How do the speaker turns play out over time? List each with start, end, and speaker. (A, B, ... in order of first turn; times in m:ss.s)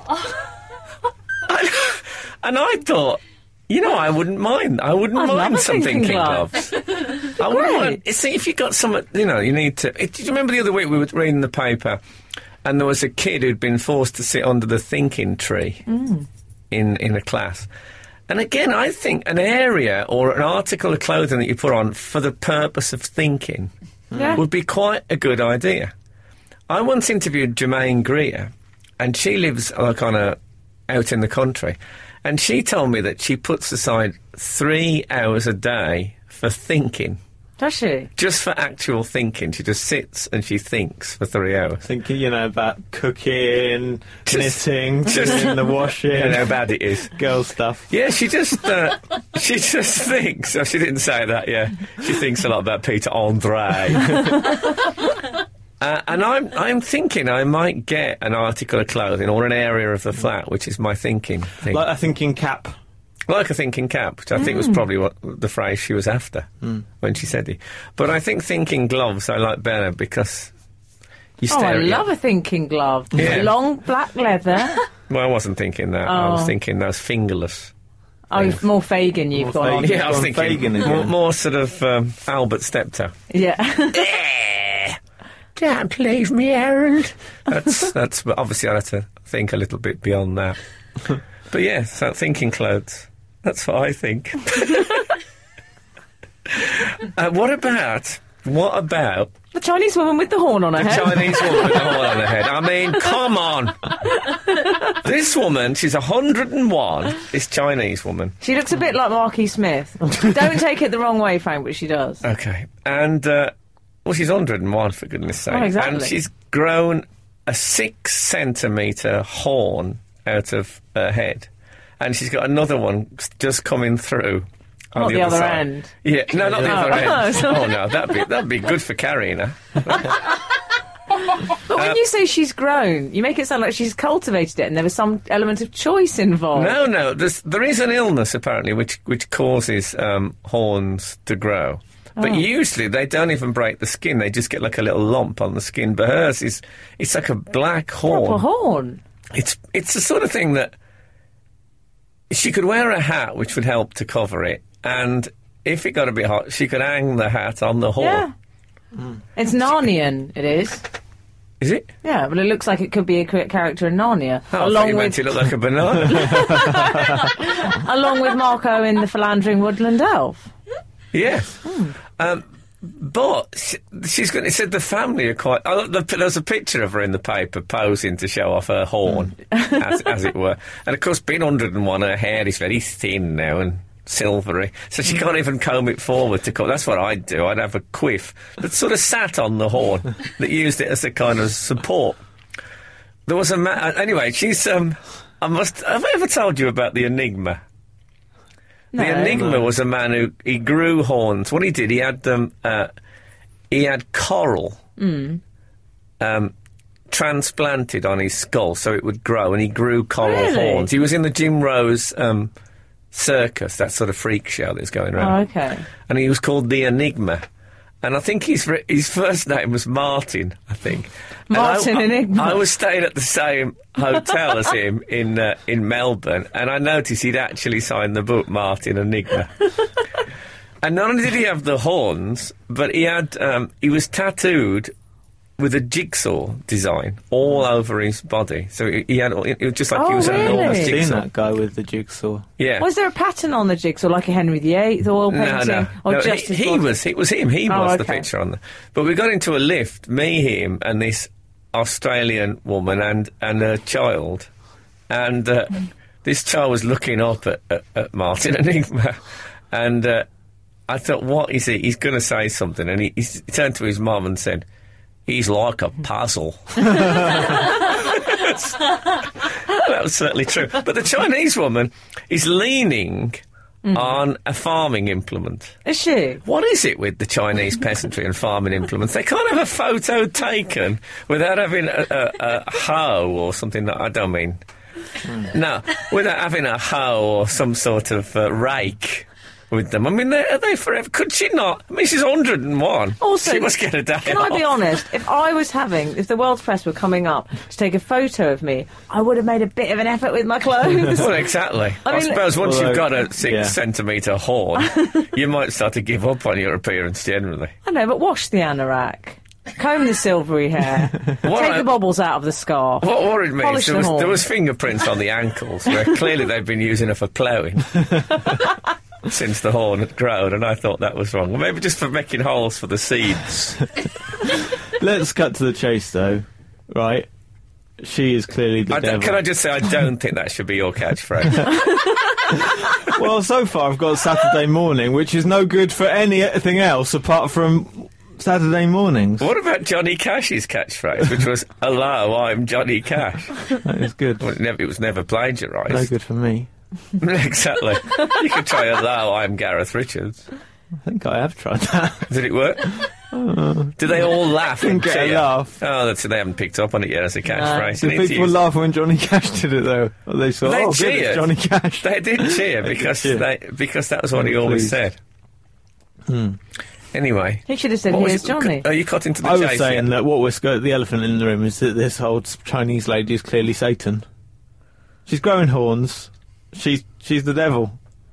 0:01.4-0:12.0 A
0:05.1-0:06.5 B
0:07.4-0:08.0 B
0:12.6-0:15.8 A
0:15.9-0:16.3 B
0:16.7-0:17.7 A
0:18.3-0:23.7 A
0:24.1-0:24.4 C
0:24.1-0:24.4 B
0:24.4-0:25.9 A
0:26.7-0:37.2 A
0:37.6-0:38.1 B
0:38.2-0:41.8 A
0:41.8-0:46.5 C
0:44.3-0:47.1 A
0:47.1-0:47.9 C
0:47.9-0:54.6 A
0:55.8-1:01.8 A
1:01.7-1:02.7 C
1:03.3-1:06.5 A
1:04.4-1:04.8 B
1:07.0-1:10.5 A
1:11.4-1:12.0 A
1:11.5-1:14.8 B
1:13.1-1:13.5 A
1:15.1-1:17.7 A
1:16.0-1:16.5 B
1:18.3-1:20.2 B
1:18.3-1:18.6 A
1:19.3-1:21.1 C
1:19.8-1:23.1 A
1:23.3-1:24.1 B
1:23.9-1:25.0 A
1:25.6-1:30.6 A
1:31.5-1:35.1 A
1:36.5-1:39.3 A
1:39.5-1:42.1 B
1:40.8-1:43.9 A
1:44.9-1:48.3 A
1:48.4-1:52.2 B
1:52.2-1:53.5 A
1:54.0-2:01.5 A
1:55.5-1:56.1 B
2:02.0-2:10.2 A
2:04.9-2:05.9 B
2:06.4-2:06.8 C
2:06.6-2:07.7 B
2:11.4-2:16.8 B
2:11.7-2:12.0 A
2:16.5-2:28.4 A
2:22.2-2:22.4 B
2:28.0-2:29.0 B
2:29.3-2:30.7 A
2:32.3-2:38.2 A
2:38.0-2:38.3 B
2:39.4-2:40.8 B
2:41.6-2:41.9 A
2:42.0-2:45.2 B
2:44.5-2:46.6 A
2:46.1-2:50.5 B
2:51.1-2:51.6 A
2:51.6-2:51.9 B
2:52.2-3:12.2 A
3:13.3-3:17.6 A
3:18.9-3:19.5 B
3:18.9-3:22.9 A
3:23.7-3:24.8 A
3:25.0-3:25.4 B
3:26.2-3:26.5 A
3:27.1-3:32.5 A
3:30.2-3:30.9 B
3:33.1-3:35.4 A
3:35.2-3:35.8 B
3:36.1-3:37.4 A
3:38.0-3:49.7 A
3:41.5-3:42.6 B
3:50.8-3:54.9 A
3:55.6-4:01.2 A
3:59.9-4:01.0 B
4:00.2-4:02.4 C
4:02.6-4:02.9 A
4:02.8-4:06.9 B
4:05.3-4:14.5 A
4:07.7-4:08.2 B
4:15.1-4:19.2 A
4:19.7-4:20.2 A
4:20.9-4:24.6 A
4:25.3-4:33.4 A
4:33.8-4:34.2 B
4:33.9-4:35.7 A
4:35.8-4:36.4 B
4:36.4-4:44.6 A
4:45.4-4:54.7 A
4:53.2-5:01.3 B
5:01.1-5:07.7 A
5:02.0-5:02.5 B
5:02.5-5:03.8 C
5:07.8-5:14.4 B
5:11.4-5:11.9 A
5:13.0-5:18.5 A
5:19.2-5:23.9 A
5:25.0-5:27.3 C
5:28.0-5:29.4 C
5:28.9-5:32.1 A
5:32.5-5:39.5 C
5:39.4-5:43.7 A
5:43.8-5:44.5 C
5:44.4-5:46.1 A
5:45.9-5:46.7 C
5:47.2-5:50.4 A
5:51.0-5:52.3 C
5:52.3-5:53.1 A
5:53.3-5:55.8 C
5:54.0-5:58.5 A
5:57.6-5:57.9 B
5:57.9-6:03.4 C
6:00.6-6:05.2 A
6:04.4-6:05.0 C
6:06.3-6:06.6 C
6:07.1-6:10.1 A
6:07.7-6:08.8 B
6:09.4-6:14.2 C
6:15.2-6:18.0 C